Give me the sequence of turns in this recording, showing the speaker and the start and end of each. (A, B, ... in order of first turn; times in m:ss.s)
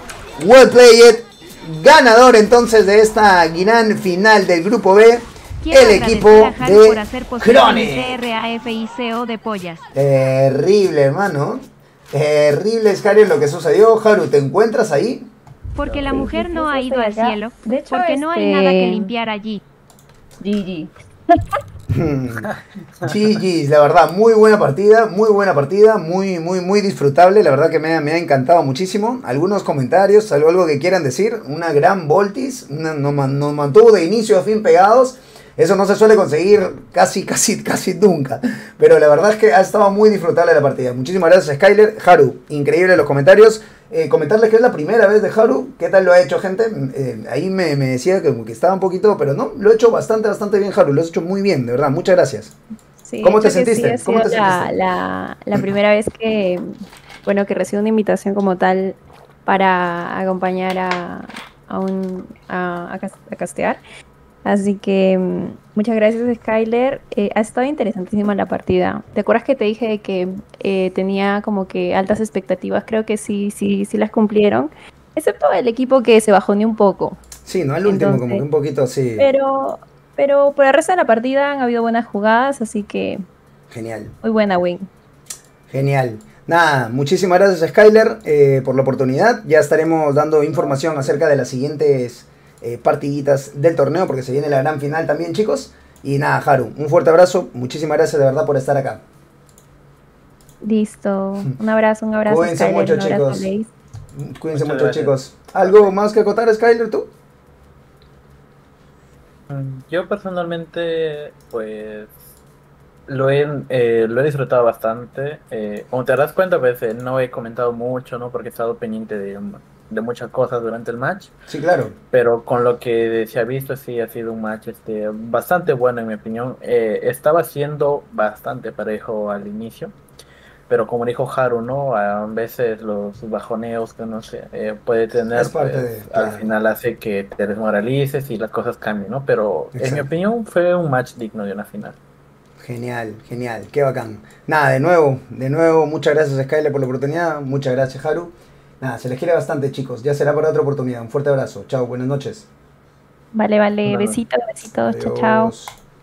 0:00.4-0:08.2 A
0:05.6-0:09.8 B
0:09.9-0:15.3 A
0:15.8-0:19.6 B
0:16.0-0:19.1 C
0:20.4-0:21.6 C
0:21.9-0:22.5 A
0:22.4-0:23.1 D
0:23.0-0:52.5 A
0:53.0-0:56.7 C
0:53.2-0:54.7 A
0:57.2-1:03.8 C
1:04.4-1:17.2 C
1:17.4-1:19.3 A
1:17.8-1:18.4 C
1:19.2-1:23.2 C
1:23.7-1:24.1 A
1:24.2-1:24.9 C
1:25.7-1:39.0 A
1:40.6-1:43.7 C
1:42.2-1:43.5 A
1:44.1-1:47.1 A
1:44.5-1:45.9 D
1:49.5-1:52.2 D
1:53.1-2:01.3 D
2:01.5-2:02.0 A
2:02.1-2:09.9 D
2:10.7-2:22.0 D
2:15.3-2:16.5 A
2:19.7-2:20.1 A
2:22.6-2:32.5 A
2:33.3-2:35.5 C
2:33.8-2:34.2 D
2:34.8-2:35.7 A